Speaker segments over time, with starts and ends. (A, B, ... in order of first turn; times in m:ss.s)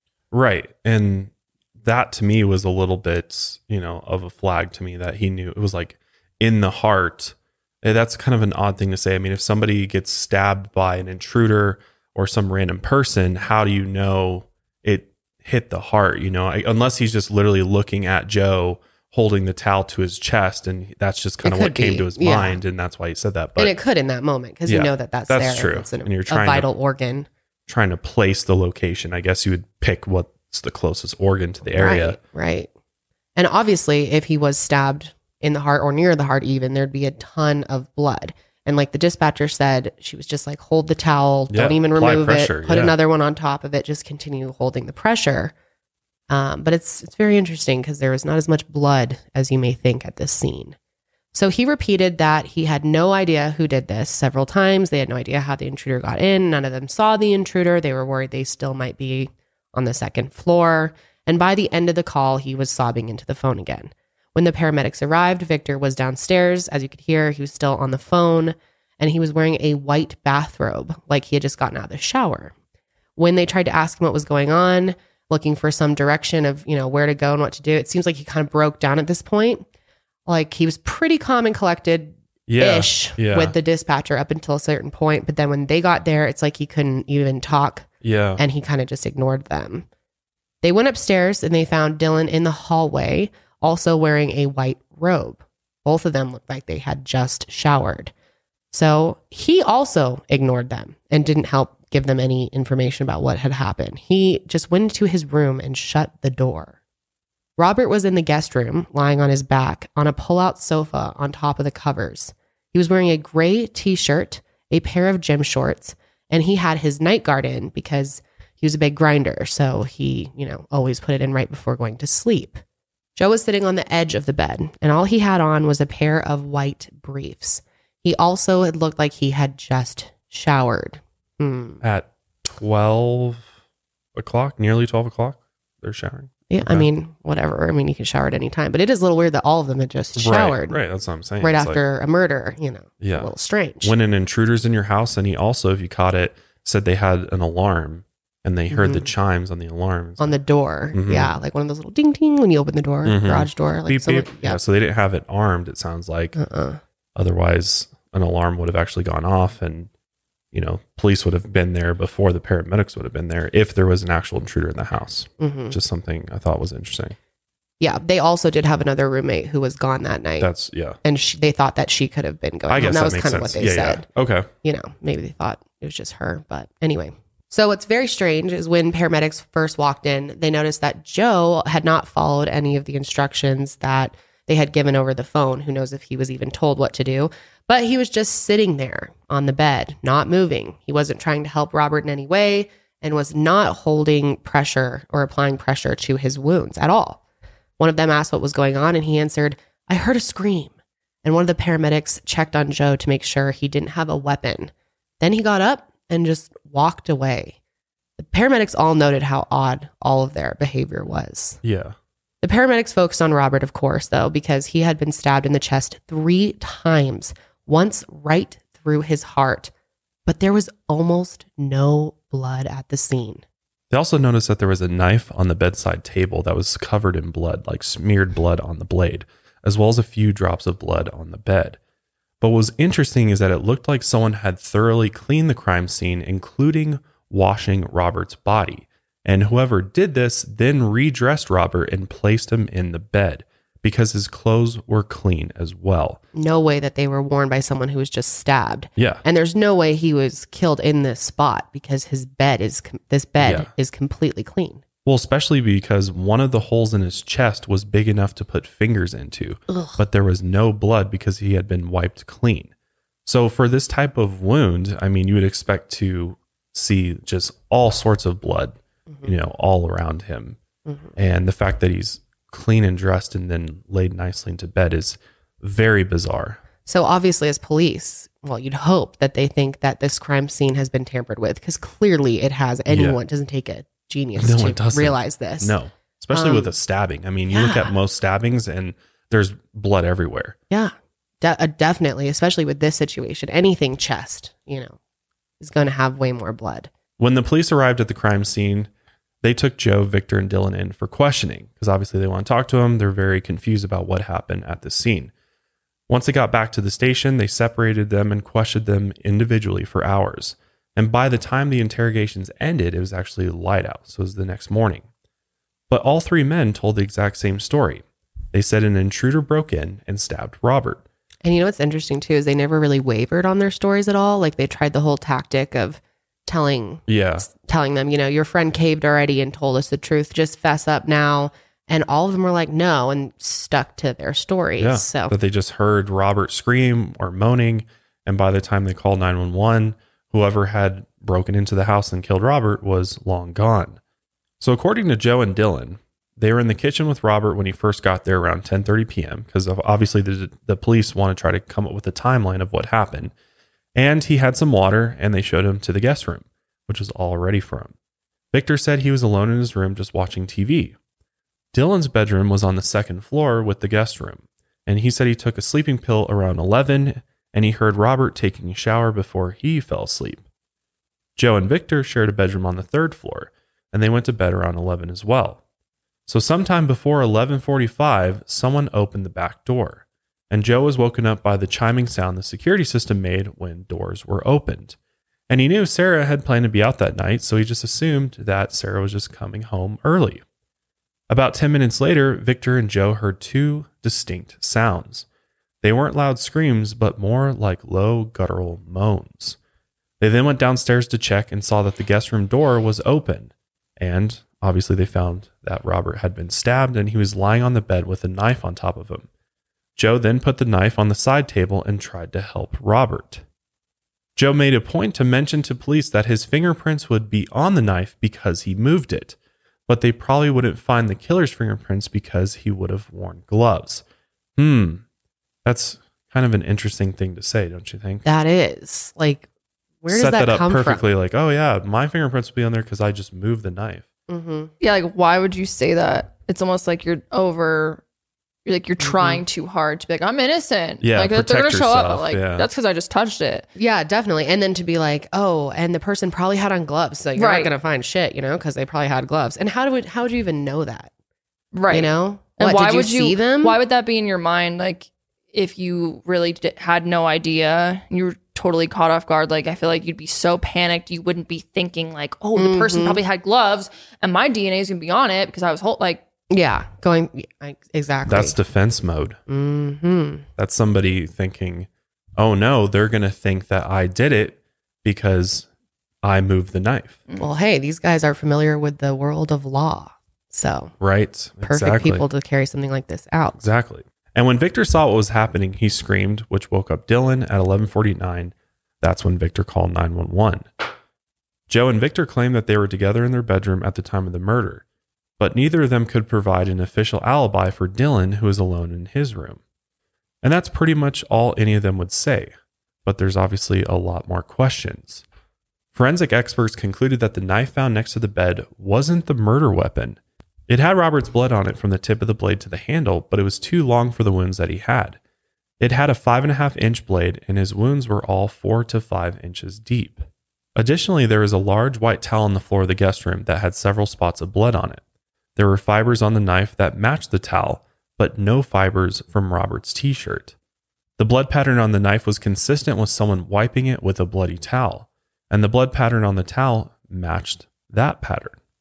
0:00.3-0:23.8 A
0:21.4-0:22.6 B
0:23.6-0:27.3 B
0:24.6-0:26.7 A
0:27.7-0:32.2 A
0:31.7-0:32.7 B
0:33.4-0:45.5 B
0:41.5-0:43.0 A
0:46.3-0:50.8 B
0:51.3-1:12.5 B
1:13.2-1:19.6 B
1:20.2-1:29.9 B
1:22.5-1:23.5 A
1:28.0-1:28.4 A
1:30.6-1:38.1 B
1:38.7-1:46.7 B
1:47.6-2:02.6 B
2:03.2-2:11.8 B
2:11.8-2:13.5 A
2:14.1-2:16.9 A
2:16.5-2:20.8 B
2:20.2-2:21.8 A
2:21.4-2:23.9 B
2:23.0-2:30.4 A
2:28.7-2:29.1 B
2:30.2-2:34.6 B
2:30.9-2:31.3 A
2:33.0-2:36.4 A
2:36.3-2:36.8 B
2:37.2-2:39.9 A
2:40.5-2:47.2 A
2:45.4-2:45.8 B
2:47.8-2:50.5 B
2:50.4-2:51.0 A
2:51.0-2:54.0 B
2:52.7-2:54.5 A
2:54.6-3:17.2 B
3:17.8-3:20.7 B
3:21.2-3:27.6 B
3:28.2-3:31.6 B
3:31.6-3:32.0 A
3:32.4-3:39.7 B
3:40.2-3:43.4 B
3:43.9-3:51.8 A
3:52.4-4:06.2 A
4:06.3-4:14.8 B
4:09.0-4:09.2 A
4:13.4-4:13.7 A
4:15.0-4:22.7 A
4:19.7-4:20.0 B
4:23.2-4:30.6 A
4:30.8-4:31.1 B
4:31.2-4:36.6 A
4:36.8-4:45.8 B
4:42.9-4:43.2 A
4:44.4-4:50.6 A
4:46.3-4:46.7 B
4:47.5-4:47.9 B
4:50.7-4:55.0 B
4:55.6-4:56.9 B
4:57.2-4:58.9 A
4:59.4-5:05.3 A
5:06.1-5:15.0 A
5:15.9-5:21.0 A
5:21.4-5:35.3 B
5:27.1-5:27.4 A
5:34.8-5:44.0 A
5:44.6-5:53.3 A
5:53.9-5:57.9 A
5:58.5-6:01.0 A
6:01.7-6:10.4 A
6:11.4-6:15.6 A
6:16.3-6:25.0 A
6:25.5-6:30.4 A
6:31.3-6:35.2 A
6:35.8-6:39.6 A
6:40.2-6:49.3 A
6:50.0-6:53.4 A
6:54.4-6:59.4 A
6:59.9-7:04.0 A
7:04.6-7:05.0 A
7:05.6-7:08.3 A
7:08.2-7:09.4 B
7:10.0-7:11.0 B
7:10.1-7:14.0 A
7:14.3-7:14.7 B
7:14.8-7:18.0 C
7:18.6-7:23.7 C
7:19.0-7:19.4 B
7:21.0-7:22.7 A
7:23.8-7:31.1 B
7:27.4-7:27.7 C
7:31.7-7:46.2 C
7:31.9-7:33.8 B
7:42.5-7:43.2 B
7:46.5-7:48.6 B
7:48.2-7:49.4 A
7:49.5-7:50.5 B
7:50.6-7:55.7 A
7:56.2-7:57.2 A
7:57.4-8:00.9 B
8:01.0-8:02.2 A
8:01.6-8:03.6 B
8:03.6-8:10.7 A
8:11.7-8:14.8 A
8:15.4-8:19.6 A
8:20.4-8:22.5 A
8:23.0-8:25.2 A
8:25.9-8:35.2 A
8:35.8-8:45.0 A
8:45.6-8:50.5 A
8:51.2-8:58.6 A